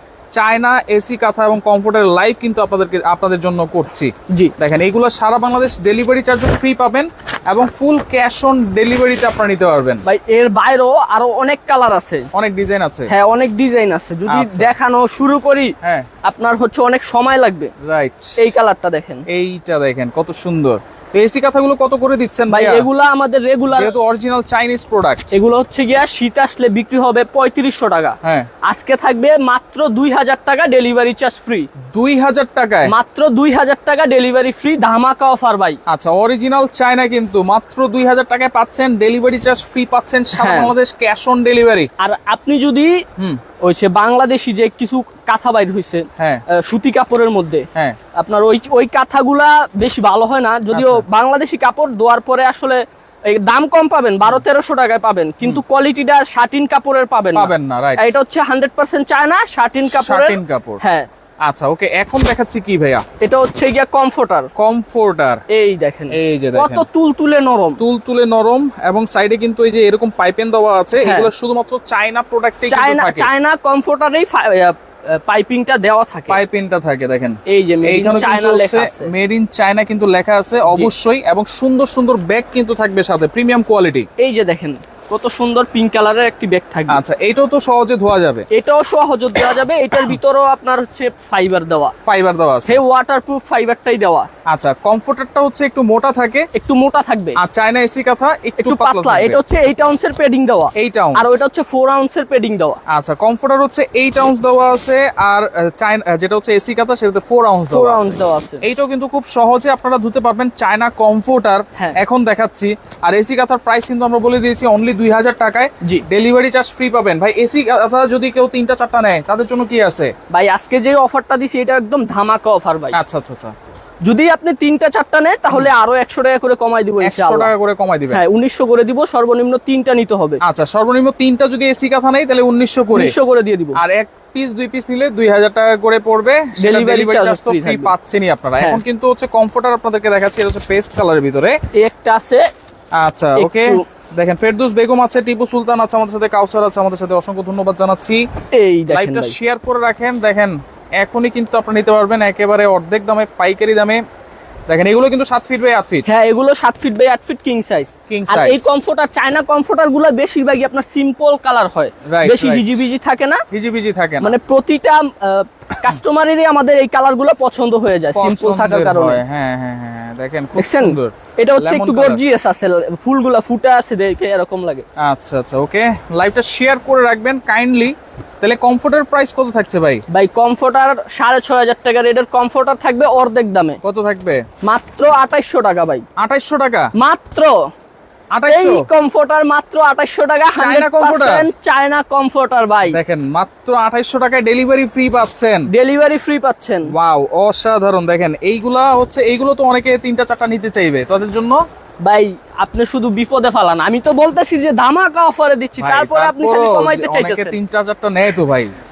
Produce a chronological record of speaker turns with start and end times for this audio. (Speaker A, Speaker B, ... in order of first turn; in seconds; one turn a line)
Speaker A: 0.3-10.0
Speaker B: 4.3-4.5
Speaker B: 10.0-12.3
Speaker A: 12.3-13.1
Speaker B: 13.1-17.7
Speaker A: 14.3-14.7
Speaker A: 15.8-16.1
Speaker A: 17.8-18.5
Speaker B: 18.4-19.2
Speaker A: 19.3-22.9
Speaker B: 22.5-23.9
Speaker A: 23.7-25.4
Speaker B: 25.3-31.7
Speaker A: 28.2-28.5
Speaker A: 31.9-32.9
Speaker B: 32.9-35.8
Speaker A: 35.9-41.9
Speaker B: 40.3-40.7
Speaker B: 42.0-43.0
Speaker B: 43.6-61.1
Speaker A: 46.2-46.4
Speaker A: 50.7-51.0
Speaker A: 57.3-58.1
Speaker A: 59.9-60.8
Speaker A: 61.4-63.0
Speaker B: 63.2-64.5
Speaker A: 64.6-65.4
Speaker B: 65.5-67.8
Speaker A: 66.1-66.8
Speaker A: 67.8-73.3
Speaker B: 71.0-71.3
Speaker B: 72.7-76.4
Speaker A: 76.3-84.1
Speaker B: 77.5-79.1
Speaker B: 84.2-87.0
Speaker A: 86.9-88.5
Speaker B: 88.5-91.9
Speaker A: 92.0-92.8
Speaker B: 92.7-94.3
Speaker A: 94.5-96.5
Speaker B: 96.5-97.4
Speaker A: 97.4-99.4
Speaker B: 98.6-102.8
Speaker A: 100.8-101.4
Speaker A: 102.9-120.1
Speaker B: 107.7-108.6
Speaker B: 120.3-123.0
Speaker A: 122.9-123.5
Speaker B: 124.0-127.5
Speaker A: 127.0-128.2
Speaker B: 128.1-130.4
Speaker A: 130.4-133.1
Speaker B: 132.9-133.8
Speaker A: 133.8-141.5
Speaker B: 136.6-137.9
Speaker B: 141.8-142.4
Speaker A: 142.9-148.2
Speaker B: 143.3-143.8
Speaker B: 148.5-149.4
Speaker A: 148.9-154.0
Speaker A: 154.7-156.1
Speaker B: 156.0-163.4
Speaker A: 158.1-158.7
Speaker A: 162.1-162.9
Speaker A: 163.5-164.3
Speaker B: 164.2-169.2
Speaker A: 168.1-172.2
Speaker B: 170.6-174.8
Speaker A: 175.0-180.0
Speaker B: 180.1-183.8
Speaker A: 183.8-184.4
Speaker B: 184.6-186.0
Speaker A: 186.2-186.9
Speaker B: 186.9-187.6
Speaker A: 188.3-188.8
Speaker B: 188.5-193.0
Speaker A: 190.6-191.5
Speaker A: 192.8-195.7
Speaker B: 195.7-196.9
Speaker A: 196.9-201.6
Speaker B: 202.0-207.5
Speaker A: 205.8-208.7